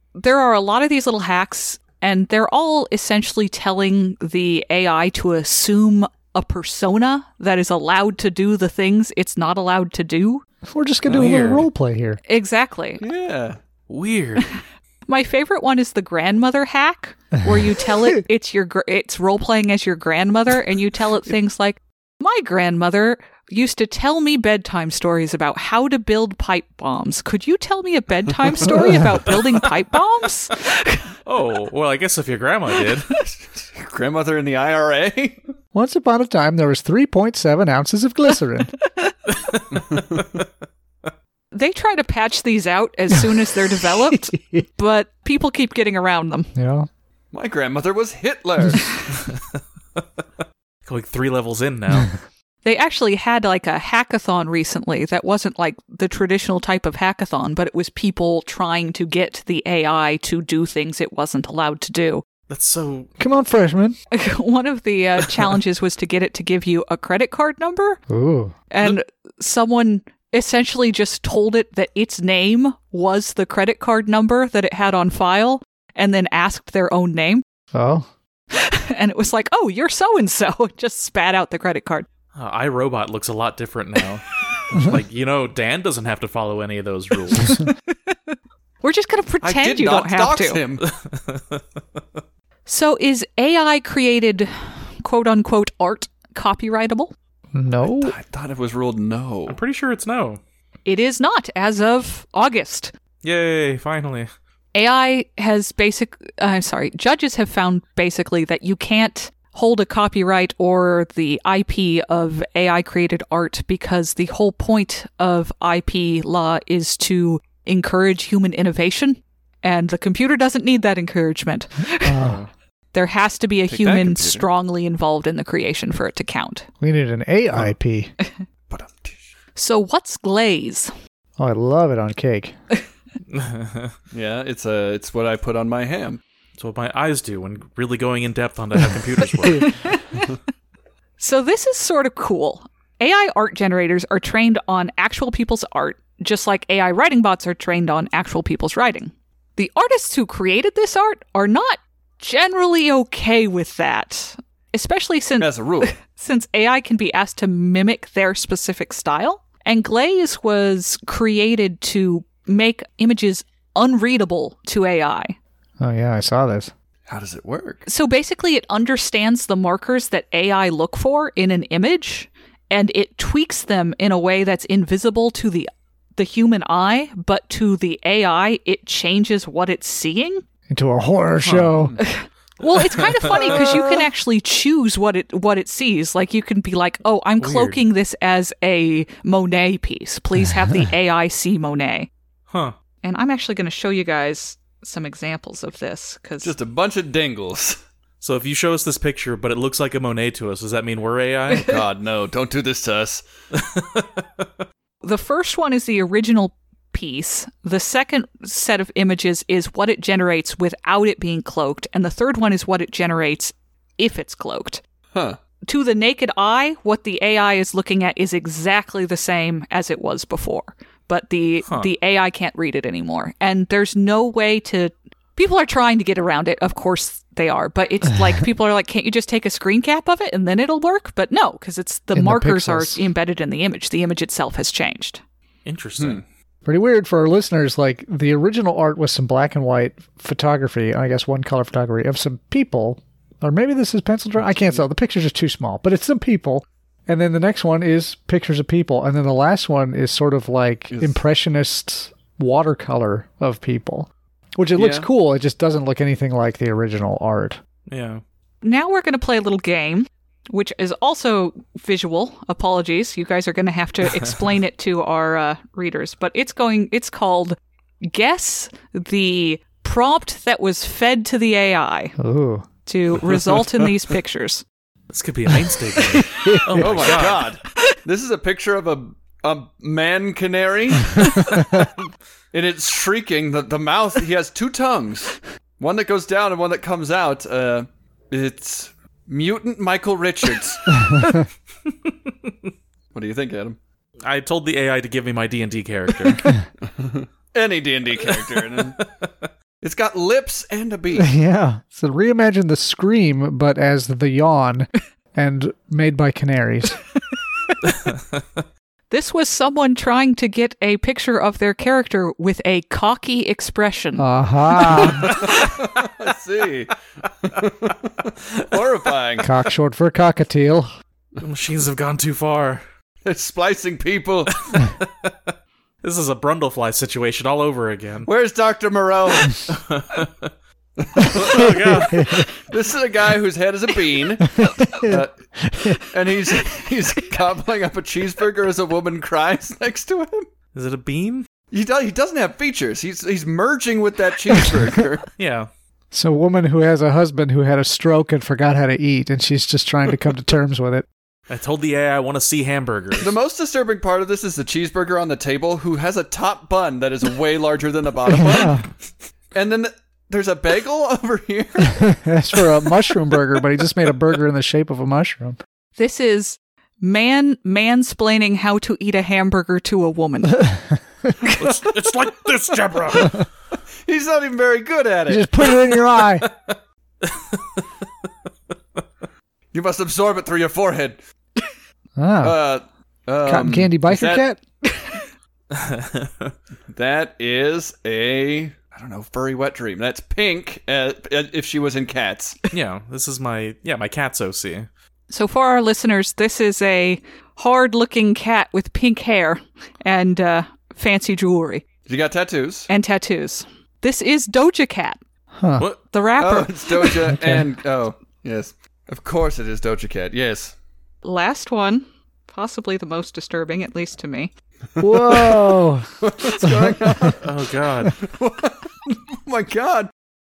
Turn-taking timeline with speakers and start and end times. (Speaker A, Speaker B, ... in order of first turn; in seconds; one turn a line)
Speaker A: 0.1-10.4
Speaker B: 10.6-12.2
Speaker C: 11.1-11.7
Speaker A: 12.3-13.0
Speaker D: 13.0-13.6
Speaker C: 13.9-14.5
Speaker A: 15.1-31.1
Speaker B: 28.6-29.1
Speaker C: 31.2-33.1
Speaker D: 33.2-35.4
Speaker B: 35.7-38.7
Speaker C: 39.3-40.4
Speaker D: 39.7-40.4
Speaker A: 41.5-46.5
Speaker B: 44.3-44.6
Speaker B: 46.5-46.9
Speaker D: 47.3-49.0
Speaker C: 49.1-50.0
Speaker C: 50.9-52.1
Speaker A: 52.6-62.2
Speaker C: 62.5-63.1
Speaker B: 63.2-64.0
Speaker A: 64.1-68.0
Speaker B: 68.1-68.5
Speaker A: 68.7-77.4
Speaker B: 77.7-78.1
Speaker A: 78.5-82.1
Speaker C: 82.3-87.6
Speaker A: 87.4-90.6
Speaker D: 89.4-90.9
Speaker C: 90.8-91.6
Speaker A: 92.7-97.1
Speaker B: 97.5-98.2
Speaker D: 97.8-99.6
Speaker C: 99.5-100.4
Speaker A: 100.9-102.9
Speaker C: 103.2-104.3
Speaker A: 104.8-122.2
Speaker B: 122.0-122.4
Speaker C: 122.2-122.5
Speaker A: 122.9-126.7
Speaker D: 123.7-124.5
Speaker B: 126.8-128.1
Speaker D: 128.7-129.3
Speaker A: 129.6-130.9
Speaker B: 131.4-132.5
Speaker C: 133.3-133.9
Speaker D: 134.1-136.2
Speaker C: 136.6-139.8
Speaker A: 139.7-140.3
Speaker A: 141.2-165.4
Speaker D: 155.4-155.9
Speaker B: 165.8-166.7
Speaker D: 167.1-167.9
Speaker A: 167.9-180.4
Speaker B: 180.7-182.0
Speaker C: 181.4-181.7
Speaker A: 182.0-192.1
Speaker C: 182.8-183.7
Speaker D: 183.3-184.1
Speaker C: 187.4-187.8
Speaker C: 192.5-192.8
Speaker A: 193.0-196.5
Speaker D: 196.4-197.8
Speaker C: 198.2-201.8
Speaker D: 201.6-203.2
Speaker C: 203.5-204.4
Speaker A: 205.0-214.8
Speaker D: 215.1-215.4
Speaker A: 215.7-235.2
Speaker B: 232.2-233.0
Speaker C: 235.7-236.2
Speaker B: 236.7-257.6
Speaker D: 244.6-244.8
Speaker D: 250.9-251.2
Speaker D: 254.8-255.1
Speaker C: 257.9-258.2
Speaker A: 258.6-272.1
Speaker B: 272.2-272.7
Speaker A: 272.9-274.6
Speaker C: 275.1-277.5
Speaker A: 276.1-276.5
Speaker B: 276.4-277.1
Speaker D: 276.8-281.9
Speaker D: 282.5-291.1
Speaker B: 291.1-291.4
Speaker D: 293.1-293.8
Speaker C: 294.2-296.5
Speaker D: 296.8-299.0
Speaker C: 298.3-299.3
Speaker D: 299.8-301.3
Speaker B: 301.1-307.0
Speaker C: 307.9-308.2
Speaker A: 309.1-314.3
Speaker B: 314.2-315.3
Speaker D: 315.2-319.5
Speaker B: 319.4-320.9
Speaker C: 321.4-322.8
Speaker D: 323.2-324.7
Speaker C: 324.7-325.5
Speaker C: 326.0-328.3
Speaker D: 328.2-329.6
Speaker C: 329.7-330.5
Speaker D: 331.0-335.4
Speaker C: 331.2-332.5
Speaker B: 332.1-332.5
Speaker B: 334.6-336.0
Speaker D: 336.0-340.5
Speaker C: 340.7-341.5
Speaker D: 341.7-345.3
Speaker C: 345.4-345.7
Speaker B: 346.1-351.1
Speaker C: 351.5-353.4
Speaker D: 353.2-358.9
Speaker B: 358.3-358.9
Speaker D: 359.5-362.1
Speaker B: 361.9-365.6
Speaker A: 366.0-370.6
Speaker B: 370.6-371.3
Speaker C: 371.6-373.5
Speaker D: 374.1-375.7
Speaker B: 375.3-376.5
Speaker C: 376.4-377.9
Speaker D: 379.7-381.2
Speaker B: 382.2-382.6
Speaker D: 382.4-384.4
Speaker B: 383.4-384.6
Speaker A: 384.9-385.2
Speaker C: 385.7-386.5
Speaker D: 386.9-392.6
Speaker C: 392.7-394.9
Speaker A: 395.3-401.8
Speaker D: 402.1-402.9
Speaker A: 402.9-405.2
Speaker B: 405.6-405.9
Speaker A: 406.1-407.2
Speaker D: 406.4-410.8
Speaker B: 407.3-407.7
Speaker A: 411.2-414.5
Speaker D: 415.0-417.5
Speaker B: 415.0-416.1
Speaker B: 416.6-417.4
Speaker C: 417.4-418.2
Speaker D: 418.1-420.1